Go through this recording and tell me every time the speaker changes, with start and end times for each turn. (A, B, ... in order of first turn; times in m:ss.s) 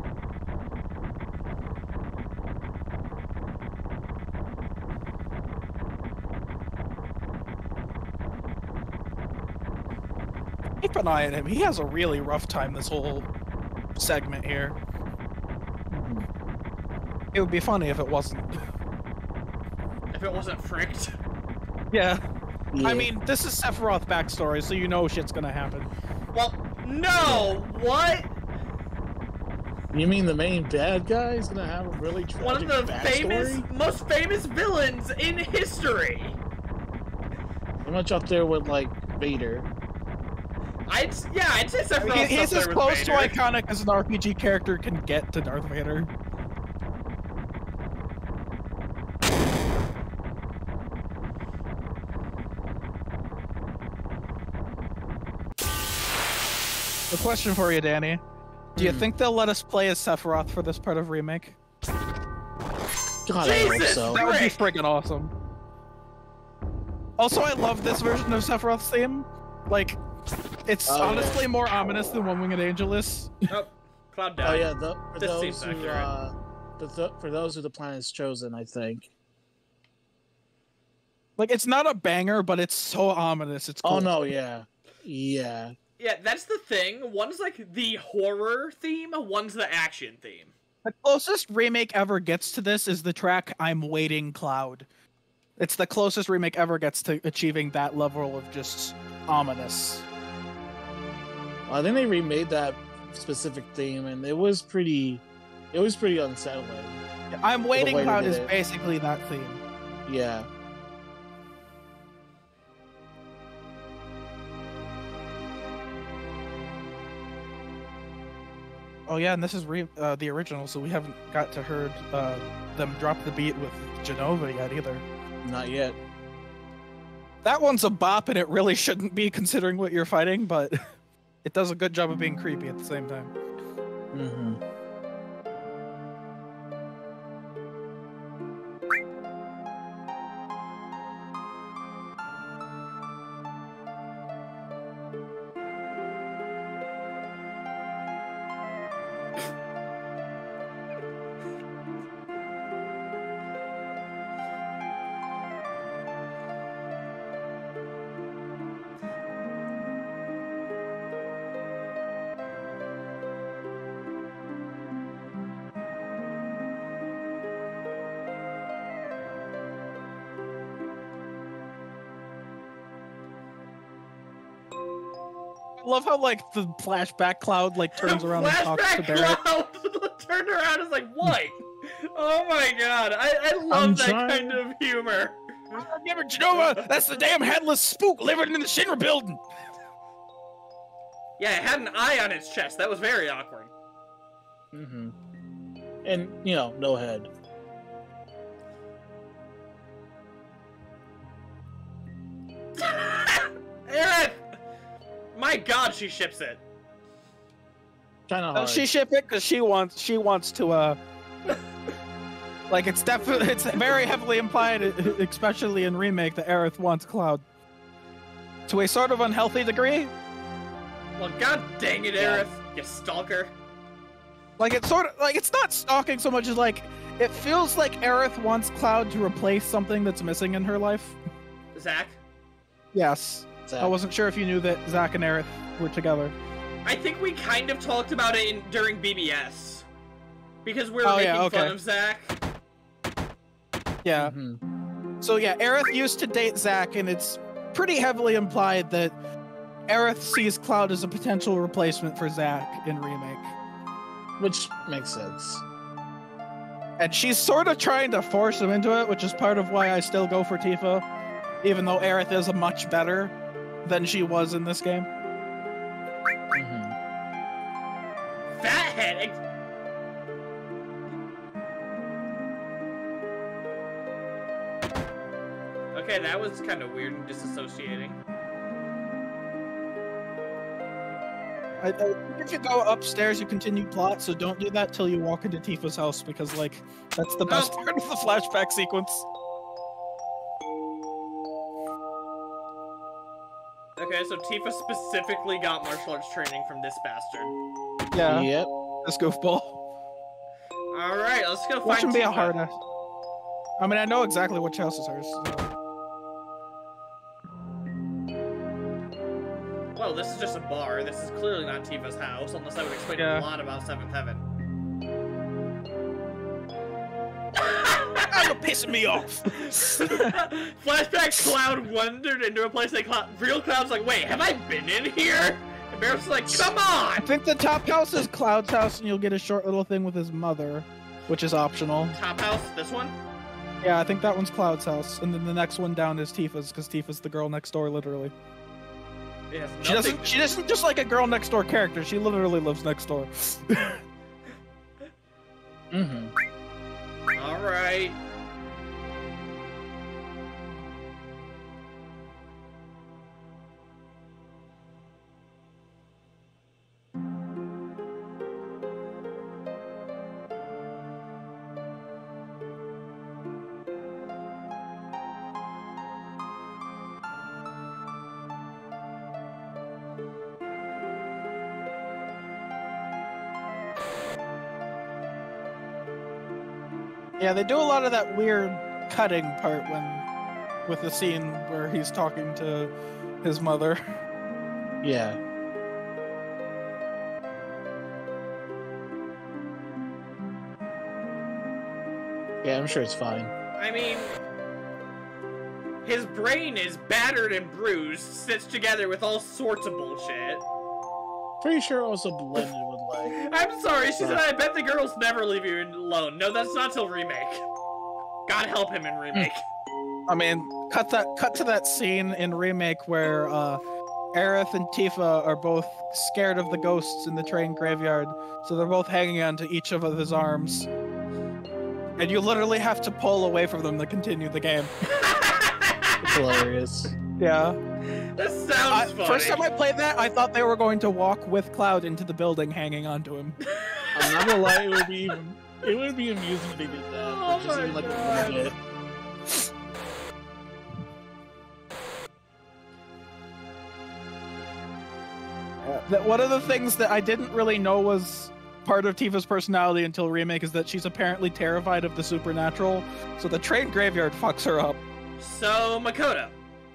0:10.8-0:13.3 A
0:13.9-0:14.8 A
0:15.9-0:16.3 B
0:17.3-0:18.6 A
0:20.1-0:21.1 C
0:21.9-0:22.2 A
0:22.7-0:23.1 B
0:22.8-0:25.9 A
0:26.3-0:28.3 C
0:27.2-0:27.6 B
0:29.9-0:33.6 B
0:32.4-0:36.4 C
0:37.8-0:39.7 B
0:40.9-0:43.3 C
0:42.0-0:46.1 A
0:57.1-0:58.2 A
0:58.8-0:59.1 B
0:58.8-1:01.6 A
1:03.2-1:04.2 B
1:03.4-1:04.7 C
1:04.1-1:05.3 A
1:07.2-1:10.0 A
1:10.7-1:13.4 A
1:10.9-1:11.4 B
1:13.5-1:16.1 C
1:14.4-1:19.1 B
1:21.4-1:24.2 A
1:23.8-1:25.7 B
1:26.0-1:30.5 C
1:30.8-1:34.9 A
1:35.6-1:40.0 A
1:41.7-1:47.0 B
1:47.3-1:49.6 A
1:47.7-1:48.5 B
1:50.0-1:50.5 B
1:59.1-2:05.0 A
2:05.4-2:06.0 B
2:07.4-2:10.8 A
2:11.4-2:13.3 A
2:14.1-2:14.6 B
2:55.8-2:59.4 A
2:58.0-3:05.8 C
3:03.7-3:04.6 B
3:05.8-3:09.4 A
3:06.6-3:06.9 C
3:11.4-3:13.7 C
3:14.7-3:15.2 B
3:16.0-3:17.3 B
3:22.8-3:24.4 C
3:25.3-3:26.6 C
3:28.3-3:28.9 B
3:28.5-3:31.0 A
3:32.7-3:37.4 A
3:38.7-3:40.1 A
3:41.2-3:43.5 C
3:42.2-3:42.4 B
3:44.6-3:51.2 A
3:51.7-3:52.2 C
3:52.9-3:56.3 A
3:53.7-3:53.9 B
3:56.8-3:59.9 C
4:00.6-4:02.4 C
4:01.0-4:01.8 A
4:04.0-4:04.3 A
4:04.2-4:04.6 B
4:05.2-4:09.2 A
4:09.9-4:13.5 A
4:14.4-4:15.6 B
4:17.0-4:21.0 A
4:21.6-4:23.3 A
4:23.8-4:25.1 A
4:26.5-4:27.0 B
4:28.6-4:29.4 C
4:35.9-4:38.2 C
4:41.8-4:49.2 A
4:47.5-4:47.8 C
4:54.0-4:57.5 C
4:58.1-4:58.5 A
4:58.2-4:58.7 B
4:59.0-4:59.8 A
5:00.9-5:02.6 C
5:01.8-5:02.8 A
5:03.8-5:05.7 A
5:09.9-5:14.4 C
5:13.1-5:13.5 A
5:17.6-5:18.5 C
5:18.3-5:20.4 A
5:19.5-5:27.3 C
5:27.2-5:32.1 A
5:32.1-5:33.2 C
5:33.8-5:38.3 A
5:39.5-5:40.5 C
5:39.8-5:44.0 A
5:45.9-5:46.3 B
5:47.3-5:48.2 C
6:17.4-6:20.3 A
6:20.9-6:24.0 A
6:25.0-6:25.4 B
6:32.6-6:33.5 B
6:33.8-6:34.4 C
6:36.0-6:40.6 C
6:41.6-6:43.4 B
6:43.4-6:47.6 C
6:48.5-6:49.6 C
6:50.3-6:53.8 A
6:54.3-7:00.9 A
7:02.2-7:04.9 A
7:05.1-7:06.6 C
7:06.2-7:07.1 B
7:07.4-7:07.8 A
7:08.1-7:09.7 C
7:08.9-7:13.6 A
7:13.6-7:14.8 C
7:14.1-7:18.8 B
7:14.5-7:14.8 A
7:17.2-7:18.7 C
7:25.8-7:35.0 A
7:35.4-7:36.5 C